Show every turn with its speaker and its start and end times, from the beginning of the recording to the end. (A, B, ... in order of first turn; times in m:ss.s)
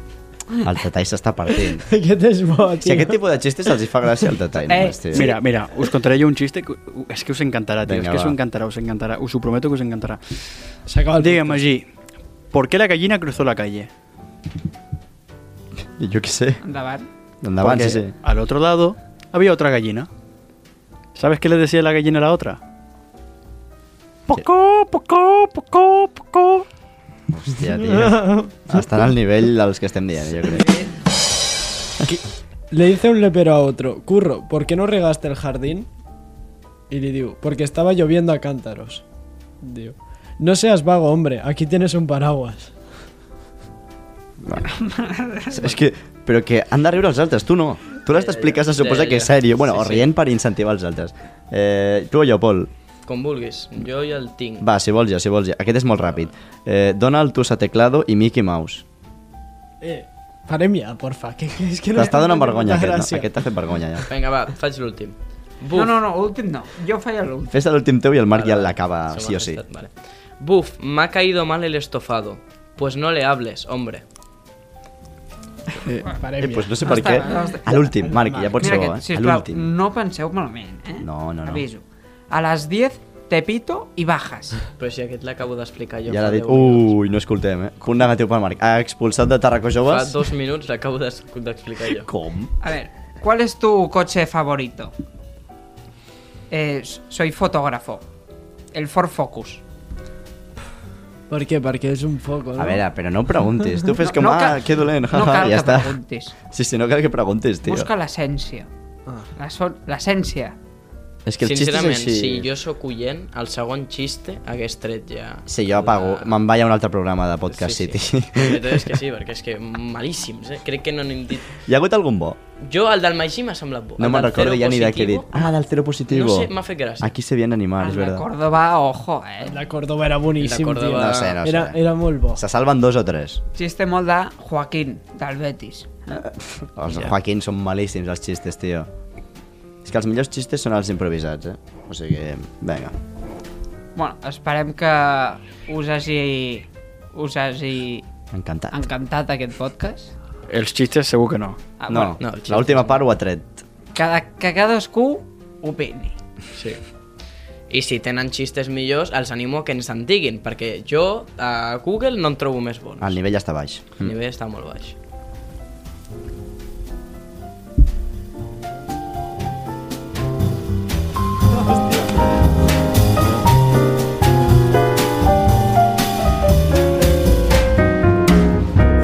0:00.6-0:01.8 A
0:01.7-0:03.2 B
0:02.8-0:05.4 A
0:04.7-0:05.3 C
0:05.1-0:10.4 D
0:07.8-0:08.4 A
0:10.9-0:11.6 B
0:11.1-0:11.9 D
0:12.5-0:13.9 D
0:16.0-0:16.6 A
0:16.6-0:17.1 C
0:17.4-0:18.1 A
0:17.6-0:20.1 D
0:21.2-0:22.6 D
0:24.3-0:26.6 D
0:27.3-0:30.8 A
0:27.8-0:28.5 B
0:32.0-0:35.9 B
0:36.9-0:39.0 B
0:39.6-0:42.7 B
0:44.4-0:44.8 A
0:44.8-0:45.7 C
0:45.5-0:52.7 A
0:48.1-0:50.1 E
0:53.1-0:54.7 E
0:54.6-0:58.8 A
0:59.8-1:04.0 B
1:01.9-1:04.1 A
1:04.1-1:05.9 E
1:05.7-1:07.5 C
1:07.5-1:09.6 A
1:08.3-1:14.0 E
1:15.9-1:18.9 B
1:16.4-1:19.6 A
1:16.8-1:17.8 C
1:18.6-1:24.6 C
1:21.0-1:21.6 A
1:24.8-1:27.0 E
1:26.1-1:30.2 A
1:29.9-1:32.1 E
1:31.9-1:32.5 A
1:32.6-1:34.9 C
1:36.5-1:38.0 C
1:38.7-1:39.6 C
1:41.3-1:42.8 B
1:42.6-1:46.0 A
1:44.0-1:46.4 C
1:46.5-1:47.9 A
1:47.6-1:48.7 C
1:49.4-1:50.6 C
1:51.3-1:52.5 A
1:51.4-1:56.4 E
1:55.5-1:58.9 A
1:57.5-2:01.6 E
2:01.6-2:02.4 A
2:02.6-2:05.5 E
2:04.0-2:08.3 A
2:06.1-2:07.1 E
2:07.8-2:09.6 C
2:09.4-2:12.4 B
2:10.4-2:11.4 E
2:11.0-2:11.8 A
2:12.3-2:13.4 A
2:13.6-2:16.2 C
2:16.1-2:18.9 A
2:19.8-2:23.0 A
2:24.0-2:28.1 C
2:28.3-2:28.8 A
2:28.7-2:30.1 C
2:30.5-2:31.6 D
2:31.8-2:32.2 C
2:31.9-2:33.6 A
2:32.2-2:33.0 E
2:34.0-2:36.2 C
2:36.5-2:36.8 E
2:37.7-2:43.2 E
2:43.0-2:44.1 A
2:44.0-2:45.0 E